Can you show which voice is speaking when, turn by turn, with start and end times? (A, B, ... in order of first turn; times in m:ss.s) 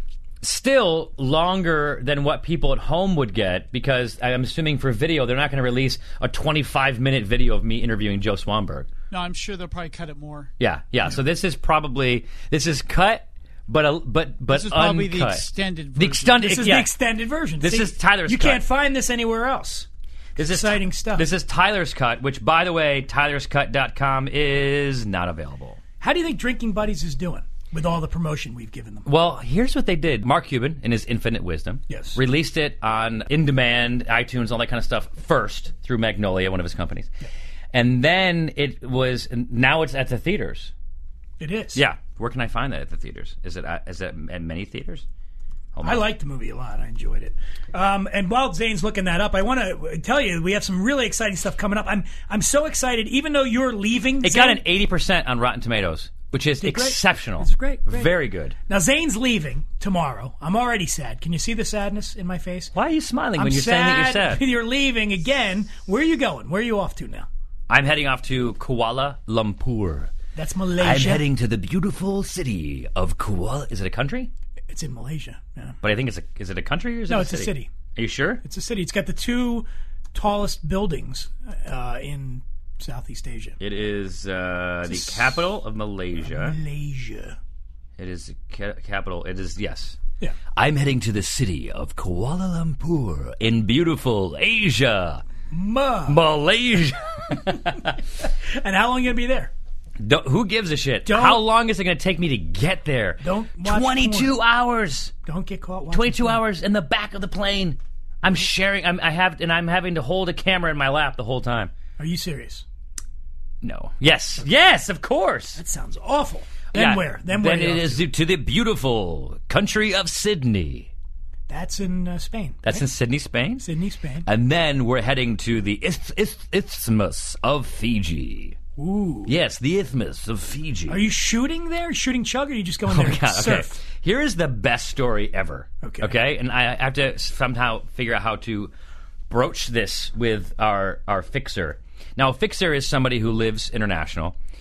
0:00.4-0:08.9 A
0:09.1-0:10.5 B
0:10.6-0:16.9 A
0:14.5-0:16.4 B
0:16.4-0:21.3 C
0:17.6-0:18.6 A
0:20.4-0:25.8 A
0:26.0-0:29.1 C
0:29.0-0:37.1 A
0:31.9-0:32.2 C
0:37.7-0:40.7 A
0:41.4-0:41.8 C
0:41.7-0:45.0 A
0:45.7-0:46.1 A
0:45.8-0:54.6 C
0:54.2-0:58.6 A
0:56.6-0:58.2 C
0:58.7-1:02.7 C
1:02.7-1:04.4 A
1:03.4-1:07.3 C
1:07.7-1:10.1 A
1:10.4-1:11.2 C
1:10.8-1:14.3 A
1:14.7-1:15.8 C
1:15.8-1:18.4 A
1:17.1-1:17.7 C
1:18.4-1:23.6 C
1:23.6-1:26.6 A
1:24.9-1:25.4 C
1:26.2-1:27.4 C
1:28.0-1:30.0 A
1:30.6-1:35.2 A
1:35.5-1:36.2 C
1:36.1-1:37.9 A
1:38.5-1:39.5 C
1:40.0-1:45.1 A
1:41.0-1:41.4 C
1:43.2-1:44.4 C
1:45.2-1:46.4 C
1:45.9-1:51.7 A
1:52.0-1:52.6 C
1:53.6-1:55.6 A
1:55.5-1:58.0 C
1:56.7-2:00.9 A
2:01.5-2:02.8 C
2:02.6-2:03.7 A
2:03.6-2:04.2 C
2:04.2-2:08.6 A
2:08.8-2:09.3 C
2:09.2-2:11.0 A
2:10.9-2:13.7 C
2:12.8-2:18.7 A
2:15.8-2:16.2 C
2:19.3-2:24.4 A